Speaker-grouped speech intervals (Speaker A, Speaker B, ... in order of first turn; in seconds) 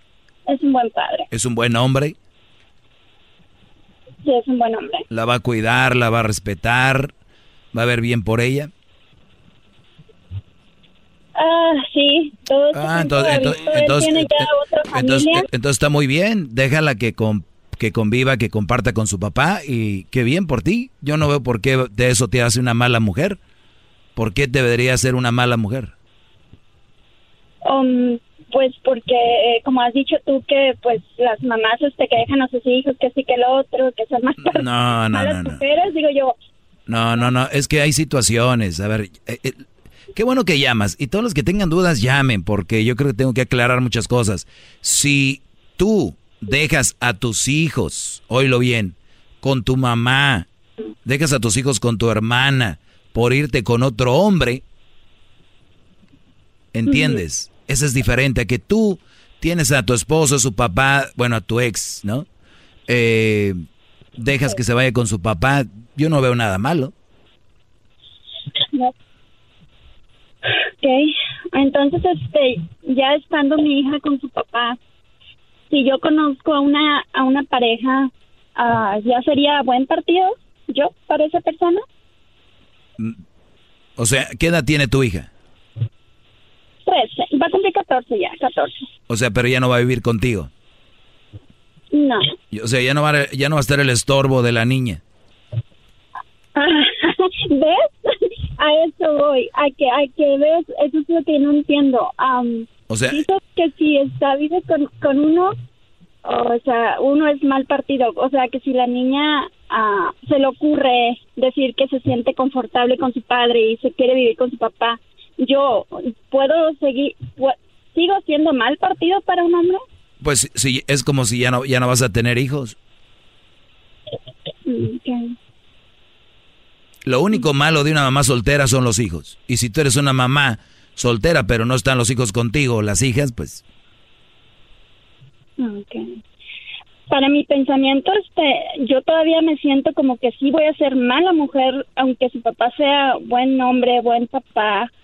Speaker A: 0.5-1.3, 4.2-5.0, 11.4-15.5, 27.6-36.4, 56.9-57.2, 70.8-74.8, 75.7-81.8, 86.9-88.8, 91.9-92.3, 96.6-105.5, 106.2-119.8, 124.7-125.3, 135.6-136.1, 137.1-144.9
Speaker B: 1.3-2.1, 5.1-7.1, 7.7-8.7, 12.8-23.4, 24.2-25.9, 34.5-35.6, 36.9-50.5, 51.0-54.6, 56.8-62.3, 62.9-63.6, 64.2-66.9, 84.0-85.3, 89.1-90.5, 92.5-95.0, 102.9-103.2, 120.2-122.8, 127.0-133.6